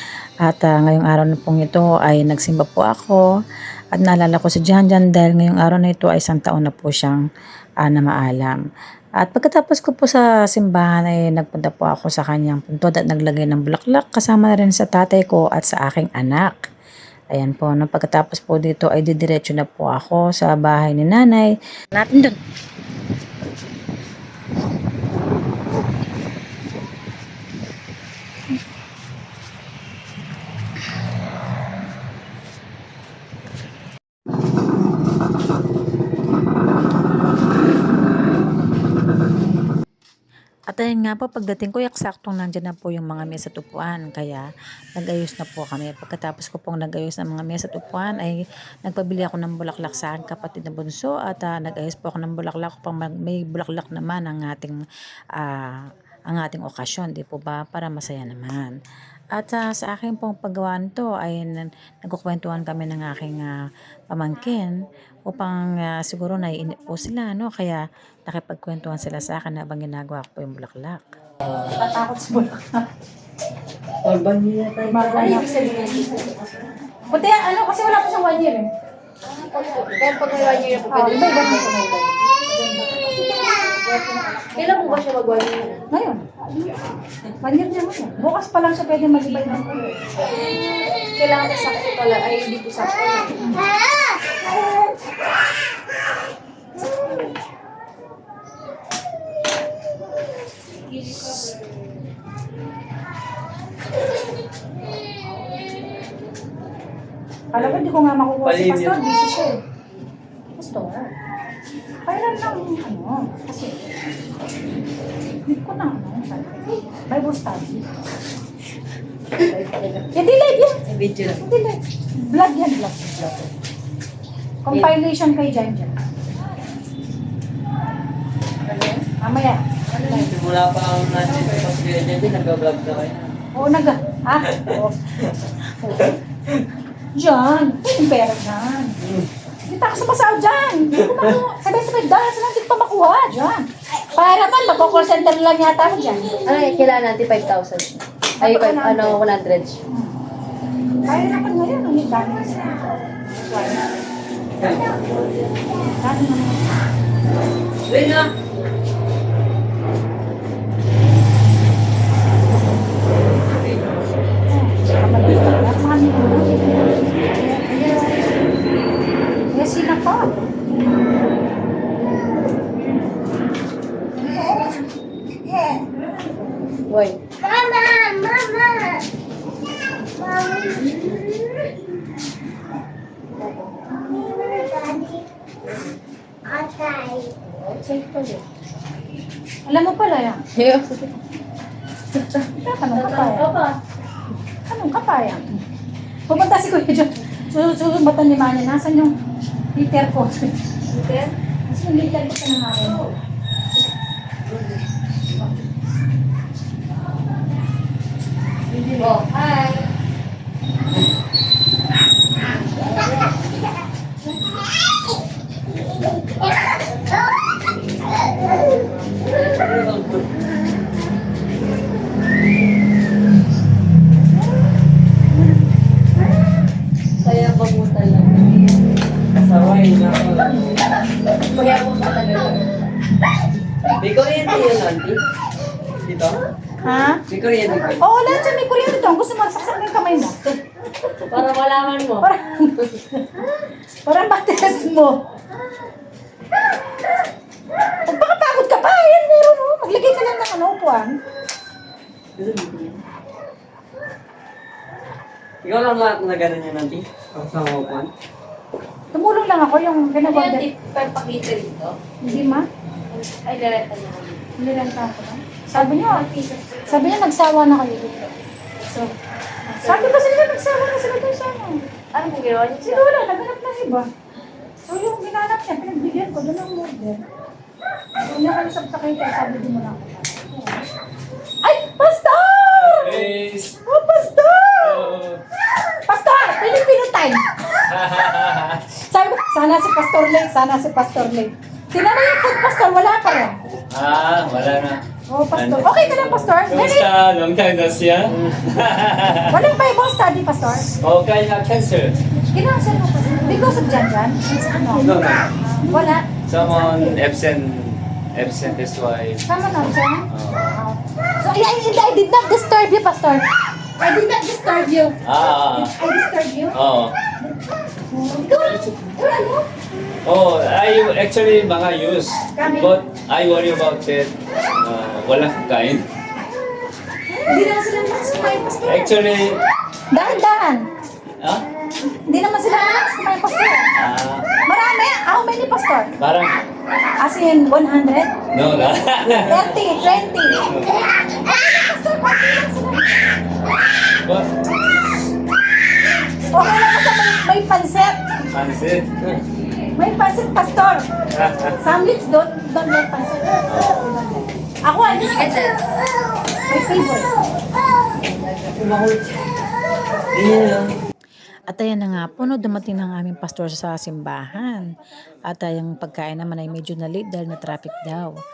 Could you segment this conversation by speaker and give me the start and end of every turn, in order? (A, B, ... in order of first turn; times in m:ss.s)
0:00.5-0:03.2 A
0:04.0-0:07.2 A
0:07.9-0:08.6 A
0:09.2-0:16.6 A
0:17.3-0:22.4 A
0:40.7-0:54.8 A
0:55.4-0:55.7 A
0:56.3-0:58.8 A
0:59.4-1:03.6 A
1:04.1-1:04.7 A
1:05.3-1:11.0 A
1:11.6-1:12.9 B
1:14.0-1:15.4 C
1:14.9-1:15.9 B
1:15.2-1:16.4 D
1:17.1-1:18.7 B
1:19.2-1:22.4 D
1:20.8-1:21.9 B
1:22.5-1:25.1 B
1:24.5-1:25.8 D
1:25.9-1:26.3 B
1:27.4-1:30.0 B
1:30.4-1:33.6 D
1:47.5-1:47.9 C
1:47.5-1:49.6 B
1:48.4-1:49.0 C
1:50.6-1:51.1 B
1:52.1-1:53.8 B
1:55.5-1:57.8 B
1:59.4-2:00.1 D
2:00.1-2:00.8 B
2:00.9-2:01.4 D
2:01.4-2:03.2 B
2:04.7-2:05.9 B
2:08.7-2:09.0 D
2:09.1-2:10.3 B
2:10.0-2:13.3 C
2:13.5-2:16.2 B
2:17.2-2:19.0 B
2:19.7-2:26.4 B
2:26.4-2:29.8 D
2:28.4-2:29.2 B
2:31.1-2:33.8 B
2:34.6-2:34.9 C
2:36.0-2:36.6 B
2:37.9-2:38.3 C
2:43.6-2:44.0 C
2:44.5-2:48.3 B
2:49.5-2:50.4 B
2:56.9-2:57.2 D
3:03.4-3:03.7 D
3:07.2-3:08.4 D
3:09.7-3:10.4 B
3:10.6-3:11.1 D
3:12.4-3:13.8 D
3:12.6-3:13.5 B
3:14.7-3:15.6 B
3:16.3-3:19.2 B
3:19.7-3:20.5 B
3:20.9-3:21.3 D
3:21.7-3:23.1 B
3:28.8-3:29.9 D
3:39.4-3:40.3 C
3:47.2-3:48.6 C
3:49.4-3:50.6 C
3:51.5-3:52.7 D
3:54.0-3:55.2 C
3:56.0-3:56.4 C
3:56.9-3:57.2 B
3:57.3-3:58.0 C
3:58.0-4:00.4 B
4:01.3-4:02.3 D
4:02.2-4:03.2 B
4:04.1-4:05.2 B
4:08.0-4:11.2 B
4:12.4-4:13.0 C
4:15.6-4:18.1 C
4:19.1-4:20.7 B
4:20.2-4:22.5 D
4:22.2-4:22.7 B
4:23.1-4:24.4 D
4:24.6-4:26.3 B
4:25.7-4:27.2 D
4:26.9-4:28.3 B
4:28.8-4:29.1 B
4:29.7-4:31.8 B
4:29.8-4:30.2 D
4:32.1-4:33.3 D
4:32.8-4:34.1 B
4:34.9-4:37.2 B
4:38.2-4:40.8 B
4:41.6-4:43.3 B
4:42.7-4:43.8 E
4:43.9-4:45.2 B
4:44.8-4:45.4 E
4:46.1-4:47.4 B
4:47.9-4:49.0 E
4:49.1-4:53.6 B
4:53.9-4:55.0 E
4:55.3-4:57.1 B
4:55.5-4:59.6 E
4:59.5-5:00.9 B
5:01.0-5:02.2 E
5:02.5-5:07.1 B
5:05.0-5:05.5 E
5:06.4-5:09.5 E
5:09.5-5:13.4 B
5:10.3-5:10.8 E
5:14.0-5:16.8 B
5:15.2-5:16.0 E
5:16.7-5:17.2 E
5:18.1-5:19.6 B
5:18.5-5:19.0 E
5:20.2-5:26.0 E
5:22.6-5:22.9 B
5:27.3-5:29.2 B
5:28.8-5:29.6 E
5:30.1-5:30.9 B
5:32.3-5:33.9 B
5:34.0-5:34.5 E
5:34.6-5:36.1 B
5:36.2-5:36.6 E
5:37.2-5:38.3 B
5:38.5-5:39.6 E
5:39.5-5:43.1 B
5:40.6-5:40.9 E
5:46.4-5:48.2 B
5:48.5-5:49.1 E
5:50.0-5:51.1 B
5:51.3-5:51.8 E
5:51.8-5:55.6 B
5:53.7-5:54.2 E
5:55.2-5:55.8 D
5:56.7-5:57.3 B
5:58.5-5:59.5 C
6:00.3-6:00.9 C
6:01.7-6:04.9 A
6:05.5-6:08.4 A